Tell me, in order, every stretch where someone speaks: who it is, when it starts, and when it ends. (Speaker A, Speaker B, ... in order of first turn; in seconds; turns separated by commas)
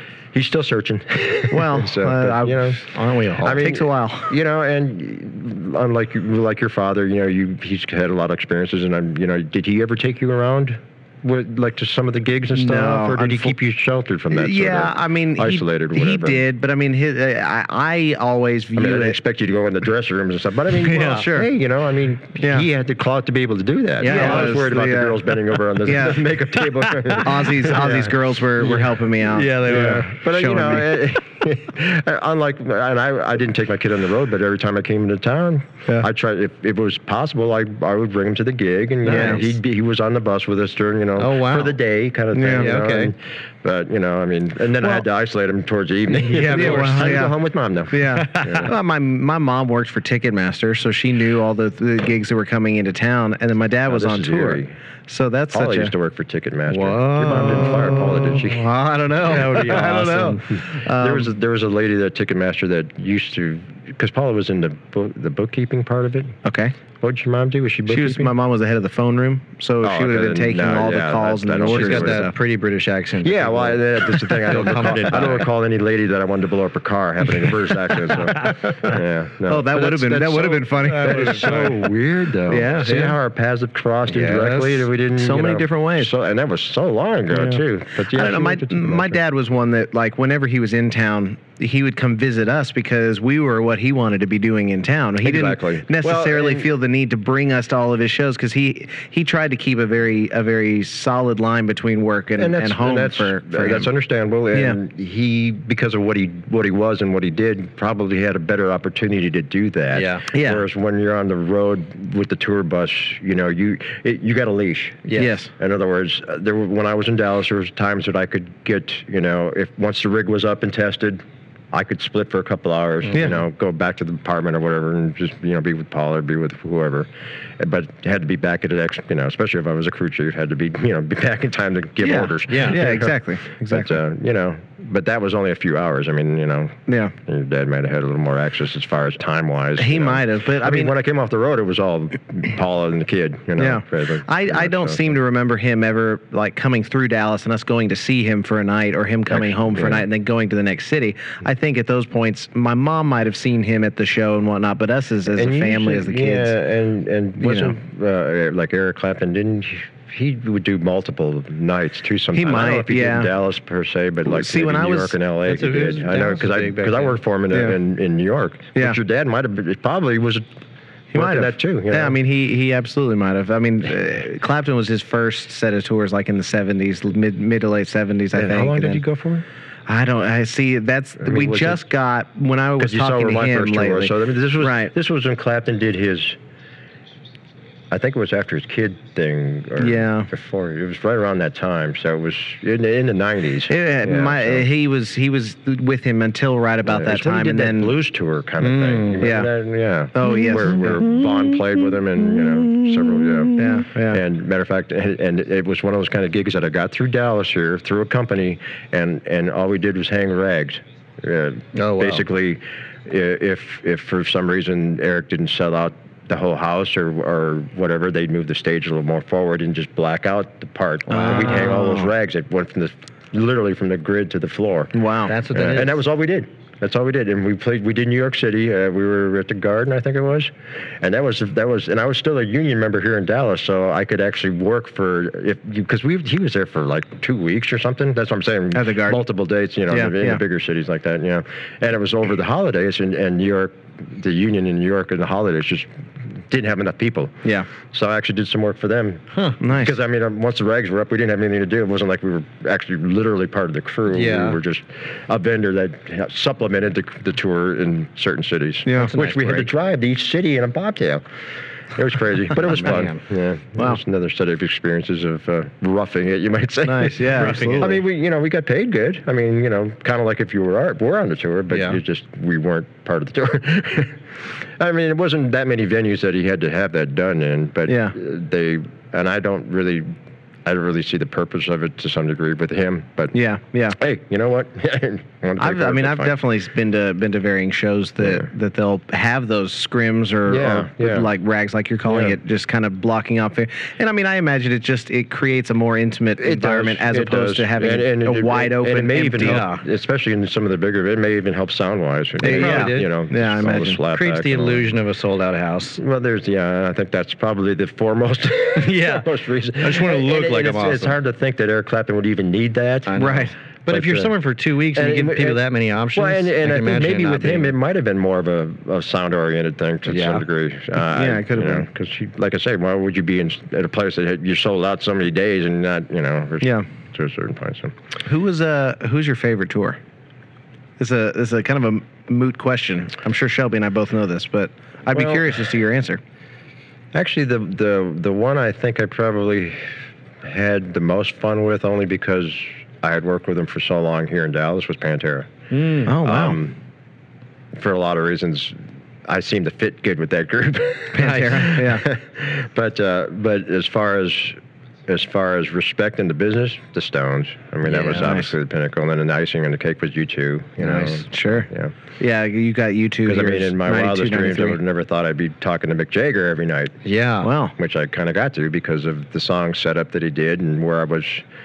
Speaker A: 0.3-16.4, Speaker B: 1.5-2.8, Speaker C: 2.9-3.6, Speaker B: 3.5-4.3, Speaker B: 12.5-13.6, Speaker B: 14.3-19.2, Speaker A: 18.8-28.8, Speaker C: 20.8-21.4, Speaker B: 20.9-21.5, Speaker B: 22.4-22.7, Speaker C: 24.0-24.6, Speaker B: 24.0-25.2, Speaker B: 25.8-26.3, Speaker B: 27.1-31.0, Speaker C: 28.6-30.1, Speaker A: 29.6-48.7, Speaker B: 39.0-39.5, Speaker C: 39.0-39.4, Speaker C: 41.2-41.8, Speaker B: 42.3-42.7, Speaker C: 42.5-43.1, Speaker C: 46.1-47.2, Speaker B: 46.5-47.4, Speaker B: 47.9-55.9, Speaker C: 48.0-48.7, Speaker A: 53.9-54.7, Speaker A: 55.5-58.6, Speaker C: 56.7-58.5, Speaker B: 57.4-61.3, Speaker C: 59.2-60.4, Speaker A: 59.3-59.9, Speaker A: 60.5-66.4, Speaker B: 66.4-66.7, Speaker A: 67.0-68.3, Speaker B: 67.9-72.3, Speaker A: 69.8-72.3, Speaker C: 71.7-75.5, Speaker A: 73.2-89.2, Speaker C: 78.0-78.8, Speaker B: 79.5-81.6, Speaker C: 80.8-81.8, Speaker C: 82.5-83.1, Speaker B: 82.5-83.1, Speaker C: 84.1-84.9, Speaker B: 85.2-86.1, Speaker B: 87.3-103.9, Speaker A: 95.2-96.7, Speaker A: 102.4-145.2, Speaker B: 104.5-104.8, Speaker C: 109.9-110.2, Speaker B: 110.3-110.6, Speaker C: 115.0-115.3, Speaker B: 115.2-115.5, Speaker B: 123.1-123.4, Speaker B: 132.0-134.0, Speaker C: 132.5-132.8, Speaker B: 136.9-137.1, Speaker B: 139.8-140.9, Speaker B: 143.6-156.5, Speaker A: 149.3-150.1, Speaker A: 155.3-170.4, Speaker B: 157.4-157.7, Speaker B: 162.3-163.3, Speaker B: 164.2-165.2, Speaker C: 165.4-167.2, Speaker B: 171.1-179.0, Speaker A: 171.1-172.2, Speaker A: 178.3-179.4, Speaker B: 179.9-184.9, Speaker A: 181.2-181.8, Speaker A: 182.8-186.4, Speaker A: 187.9-194.7, Speaker B: 189.8-190.3, Speaker B: 193.7-197.9, Speaker A: 196.8-224.9, Speaker C: 198.6-199.3, Speaker B: 199.2-199.5, Speaker B: 200.1-201.0, Speaker B: 203.6-204.2, Speaker C: 211.7-212.2, Speaker B: 221.1-222.1, Speaker C: 221.1-221.7, Speaker B: 224.9-225.3, Speaker C: 225.3-226.0, Speaker A: 225.5-245.9, Speaker B: 238.7-239.2, Speaker B: 239.9-240.4, Speaker A: 246.5-261.2, Speaker B: 249.6-249.9, Speaker C: 254.1-254.6, Speaker B: 258.9-259.1, Speaker C: 258.9-259.7, Speaker A: 261.9-274.2, Speaker C: 262.6-263.2, Speaker B: 266.8-268.0, Speaker C: 267.3-267.9, Speaker C: 271.7-272.0, Speaker A: 274.8-280.1, Speaker B: 277.9-278.1, Speaker A: 280.6-283.4, Speaker B: 283.3-284.0, Speaker A: 283.9-286.4, Speaker B: 285.6-299.7, Speaker A: 288.2-288.5, Speaker A: 290.5-291.3, Speaker A: 292.0-292.4, Speaker A: 296.4-304.9, Speaker C: 299.4-299.8, Speaker C: 302.4-303.1, Speaker B: 302.4-304.0, Speaker C: 304.1-306.0, Speaker A: 306.0-313.1, Speaker C: 308.7-311.1, Speaker C: 313.1-317.7, Speaker B: 313.2-313.5, Speaker A: 313.9-314.3, Speaker A: 314.9-315.6, Speaker A: 316.1-327.9, Speaker C: 320.1-320.4, Speaker B: 321.0-321.9, Speaker B: 326.6-326.9, Speaker B: 328.2-330.0, Speaker B: 331.0-336.2, Speaker A: 335.1-335.6, Speaker A: 337.1-339.9, Speaker A: 340.4-345.5, Speaker C: 345.7-346.1, Speaker B: 346.1-346.6, Speaker A: 346.1-346.8, Speaker A: 347.7-361.9, Speaker B: 351.1-352.1, Speaker C: 351.2-351.7, Speaker B: 357.9-358.5, Speaker C: 360.8-361.2, Speaker B: 361.3-361.7, Speaker B: 362.2-364.8, Speaker A: 363.2-367.0, Speaker C: 367.0-367.5, Speaker B: 367.4-367.7, Speaker A: 367.8-371.4